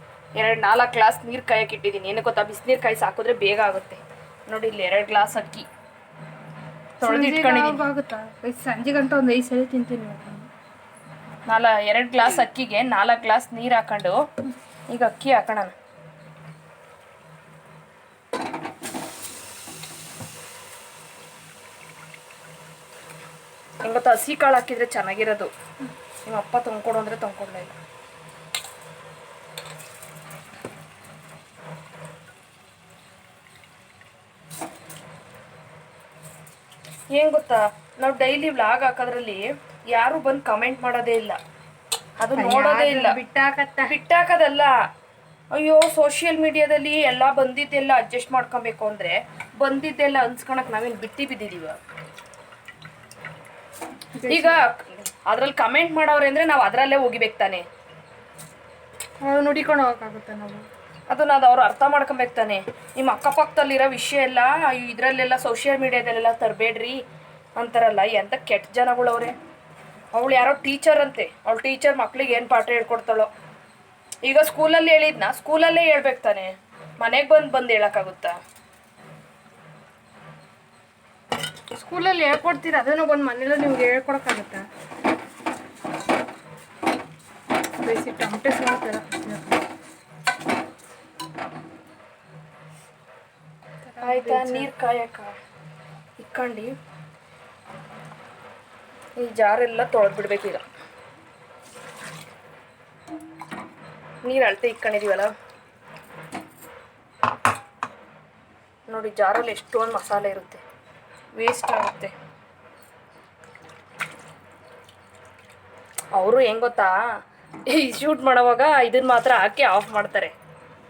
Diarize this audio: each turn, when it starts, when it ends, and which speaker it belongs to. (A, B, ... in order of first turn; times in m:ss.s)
0:00.4-0:05.7 A
0:07.0-0:07.8 A
0:07.0-0:10.5 B
0:11.5-0:14.2 A
0:14.9-0:15.7 A
0:23.8-0:25.5 A
0:26.3-0:27.8 A
0:37.1-0:41.4 A
0:42.2-0:43.2 A
0:42.4-0:44.0 B
0:43.9-0:44.7 A
0:45.5-0:51.8 A
0:54.2-0:54.6 B
0:54.3-0:57.6 A
0:59.2-1:00.6 B
1:01.1-1:07.0 A
1:07.6-1:09.3 A
1:10.1-1:13.3 A
1:14.2-1:18.4 A
1:21.8-1:24.6 B
1:27.8-1:29.6 B
1:33.8-1:34.7 B
1:34.0-1:35.3 A
1:36.2-1:36.7 A
1:39.2-1:40.6 A
1:44.2-1:45.3 A
1:48.9-1:50.6 A
1:51.4-1:52.1 A
1:56.2-1:56.9 A
1:57.7-2:00.3 A